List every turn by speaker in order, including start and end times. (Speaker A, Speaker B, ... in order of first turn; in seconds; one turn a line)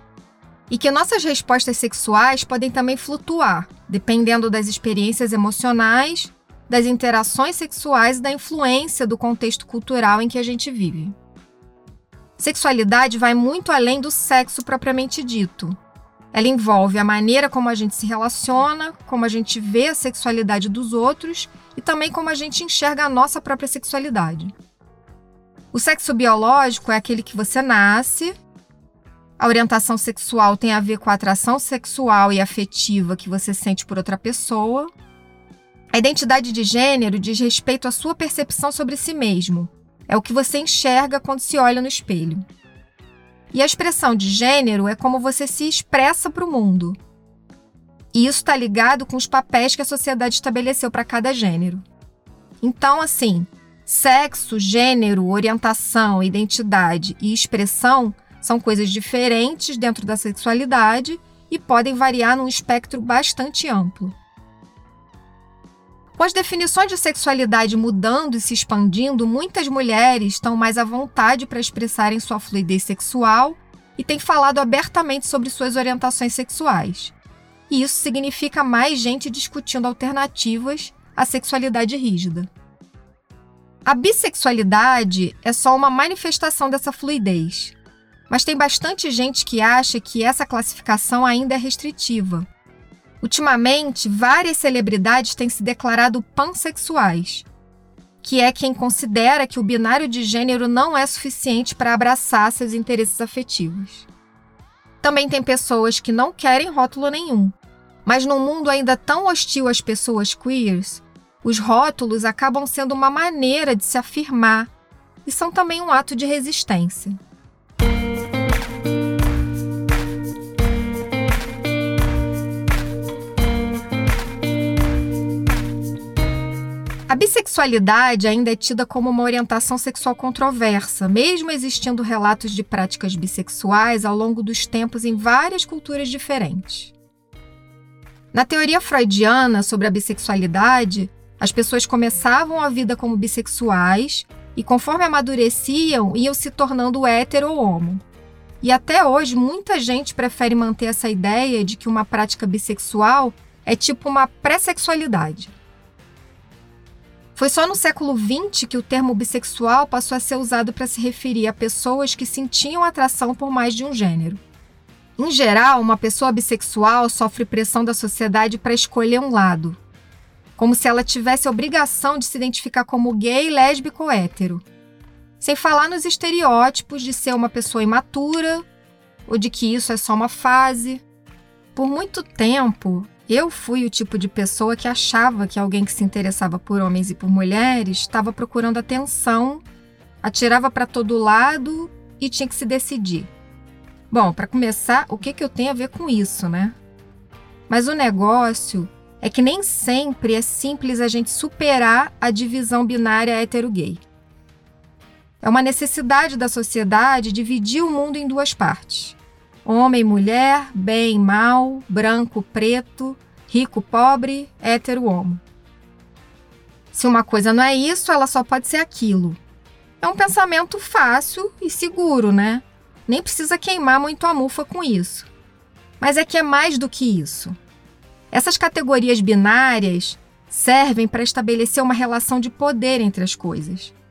Speaker A: 0.7-11.2
Speaker A: 12.4-15.8
Speaker A: 16.3-24.5
Speaker A: 25.7-28.4
Speaker A: 29.4-34.9
Speaker A: 35.9-42.4
Speaker A: 43.5-47.0
Speaker A: 48.1-51.8
Speaker A: 52.6-64.2
Speaker A: 66.2-77.2
Speaker A: 77.7-82.5
Speaker A: 83.8-87.8
Speaker A: 88.3-92.5
Speaker A: 93.2-97.5
Speaker A: 98.2-104.1
Speaker A: 105.0-114.7
Speaker A: 115.2-117.2
Speaker A: 127.1-136.9
Speaker A: 138.3-148.0
Speaker A: 148.6-155.6
Speaker A: 157.4-164.4
Speaker A: 165.2-169.8
Speaker A: 170.6-174.6
Speaker A: 175.4-178.6
Speaker A: 179.3-181.0
Speaker A: 181.8-189.6
Speaker A: 190.2-193.3
Speaker A: 194.1-196.8
Speaker A: 197.7-204.0
Speaker A: 205.4-215.4
Speaker A: 216.9-219.4
Speaker A: 220.0-225.3
Speaker A: 226.0-227.6
Speaker A: 228.3-234.0